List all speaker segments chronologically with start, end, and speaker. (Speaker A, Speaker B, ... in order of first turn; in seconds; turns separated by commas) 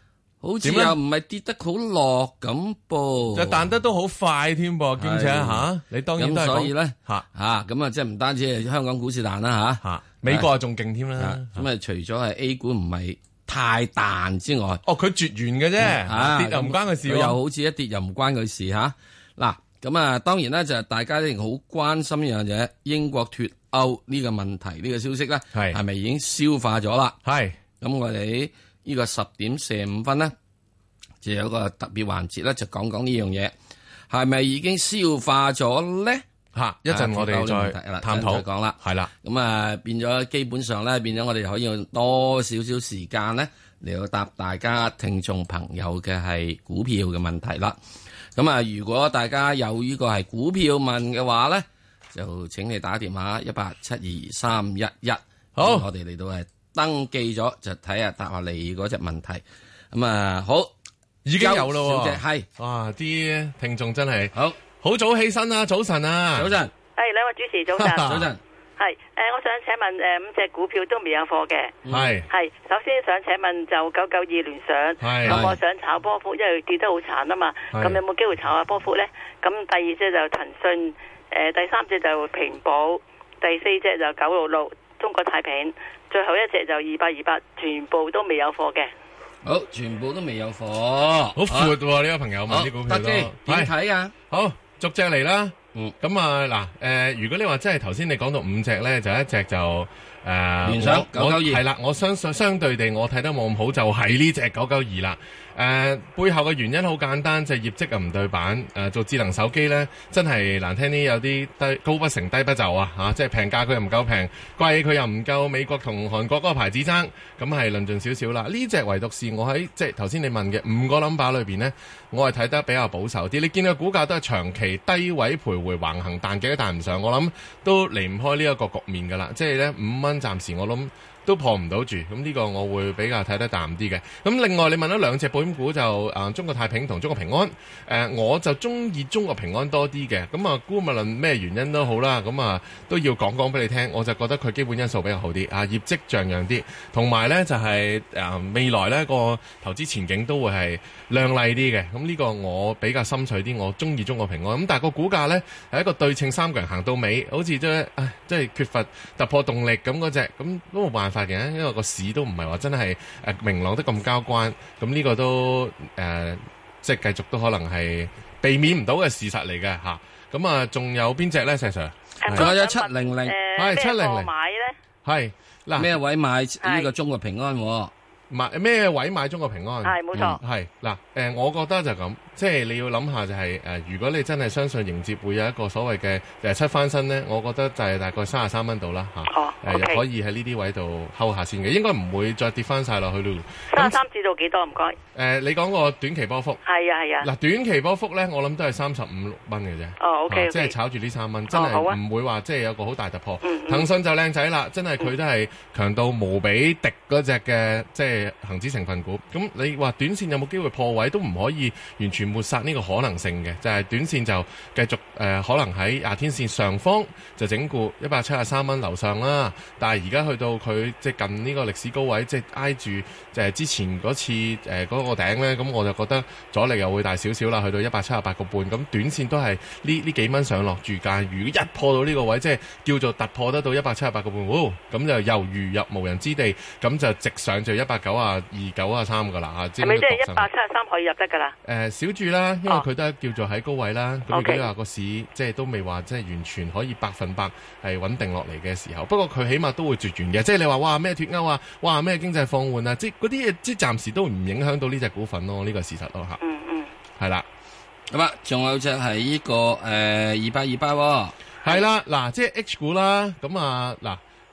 Speaker A: 0.4-3.6, Speaker B: 0.6-1.0, Speaker B: 3.3-7.2, Speaker A: 5.0-10.5, Speaker B: 9.8-11.6, Speaker A: 11.2-14.8, Speaker B: 14.8-17.4, Speaker A: 15.8-27.2, Speaker B: 25.5-25.8, Speaker B: 27.2-27.6, Speaker A: 27.8-30.3, Speaker A: 31.2-33.5, Speaker A: 34.1-36.2, Speaker B: 36.5-39.1, Speaker A: 36.9-47.8, Speaker A: 48.4-60.7, Speaker B: 55.6-55.9, Speaker B: 61.2-66.5, Speaker A: 61.4-62.5, Speaker A: 66.4-66.7, Speaker C: 67.0-68.1, Speaker B: 67.7-68.3, Speaker A: 68.0-68.4, Speaker C: 68.8-71.8, Speaker A: 71.8-72.1, Speaker B: 71.9-72.3, Speaker C: 72.3-88.9, Speaker B: 75.0-75.4, Speaker A: 75.2-75.6, Speaker B: 77.7-78.0, Speaker A: 89.4-91.8, Speaker B: 91.3-93.7, Speaker A: 92.5-94.1, Speaker B: 94.3-172.5, Speaker A: 100.6-101.6, Speaker C: 172.2-174.8, Speaker A: 172.2-173.3, Speaker B: 173.6-174.3, Speaker B: 175.0-175.9, Speaker A: 175.8-177.9, Speaker C: 176.6-176.9, Speaker B: 178.3-194.0, Speaker C: 179.8-180.4, Speaker A: 180.1-180.4, Speaker C: 189.3-190.0, Speaker C: 193.7-195.0, Speaker B: 195.1-196.6, Speaker C: 196.6-197.3, Speaker B: 197.2-240.5, Speaker C: 200.0-200.7, Speaker C: 201.5-202.0, Speaker C: 203.4-203.9, Speaker C: 239.8-241.5, Speaker B: 241.6-256.4, Speaker C: 244.3-244.7, Speaker C: 256.4-256.9, Speaker B: 257.2-257.4, Speaker A: 258.1-261.3, Speaker B: 261.6-264.2